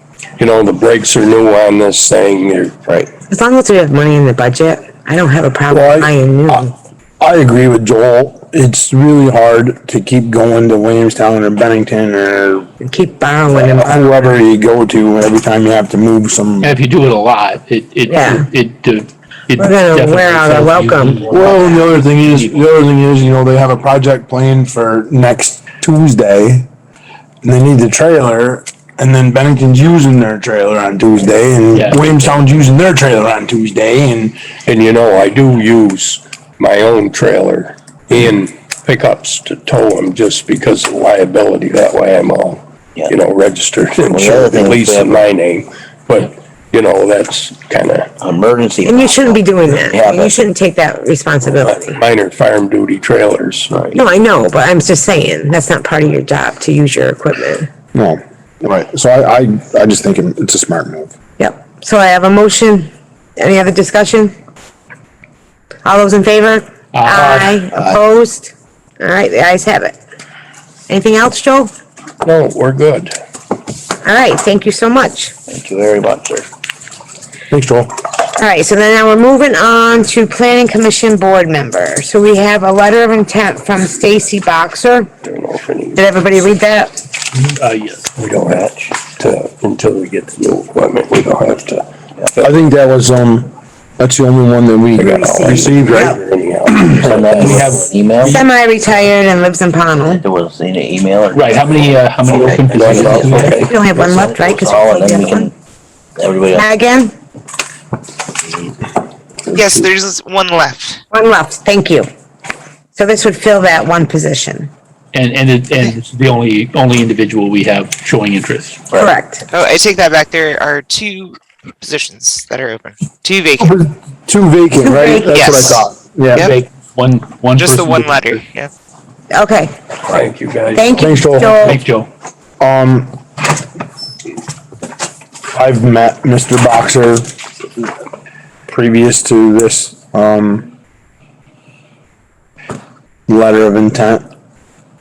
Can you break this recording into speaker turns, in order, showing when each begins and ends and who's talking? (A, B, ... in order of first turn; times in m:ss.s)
0:00.4-0:02.8 A
0:03.3-0:06.7 B
0:05.7-0:06.7 C
0:07.2-0:12.7 C
0:12.8-0:14.1 B
0:13.5-0:16.8 C
0:16.6-0:22.6 D
0:18.1-0:18.5 B
0:19.6-0:21.5 B
0:21.3-0:26.7 C
0:27.4-0:34.4 C
0:31.7-0:32.1 D
0:34.7-0:48.1 A
0:44.1-0:45.3 E
0:48.2-0:50.4 E
0:48.8-0:52.0 B
0:51.6-0:53.8 A
0:53.7-0:54.0 E
0:53.9-0:57.7 B
0:57.9-1:01.1 C
1:01.4-1:04.3 B
1:05.8-1:09.9 B
1:06.9-1:07.7 D
1:10.9-1:11.7 B
1:12.2-1:13.2 A
1:14.0-1:15.3 B
1:15.5-1:16.5 E
1:17.5-1:17.9 C
1:18.4-1:25.1 B
1:25.2-1:26.1 A
1:26.0-1:26.9 B
1:27.4-1:28.0 D
1:28.2-1:32.5 A
1:32.4-1:37.7 C
1:35.0-1:37.0 A
1:35.0-1:36.2 B
1:36.9-1:38.4 E
1:37.3-1:38.4 D
1:38.2-1:40.2 B
1:40.0-1:45.5 E
1:41.3-1:43.7 D
1:42.7-1:43.7 A
1:43.2-1:45.5 B
1:46.2-1:46.7 E
1:46.5-1:47.1 B
1:49.5-1:51.0 F
1:51.1-1:52.1 B
1:52.9-1:54.7 B
1:55.1-1:58.8 D
1:58.9-1:59.4 B
1:59.5-2:03.8 F
2:03.6-2:06.5 C
2:04.8-2:05.4 B
2:05.2-2:06.6 F
2:06.4-2:08.4 D
2:07.5-2:08.7 F
2:09.3-2:09.8 B
2:10.1-2:11.0 A
2:10.8-2:11.8 B
2:10.9-2:11.8 C
2:11.4-2:12.1 D
2:12.6-2:13.2 C
2:15.5-2:17.9 C
2:18.7-2:20.7 C
2:23.3-2:24.2 C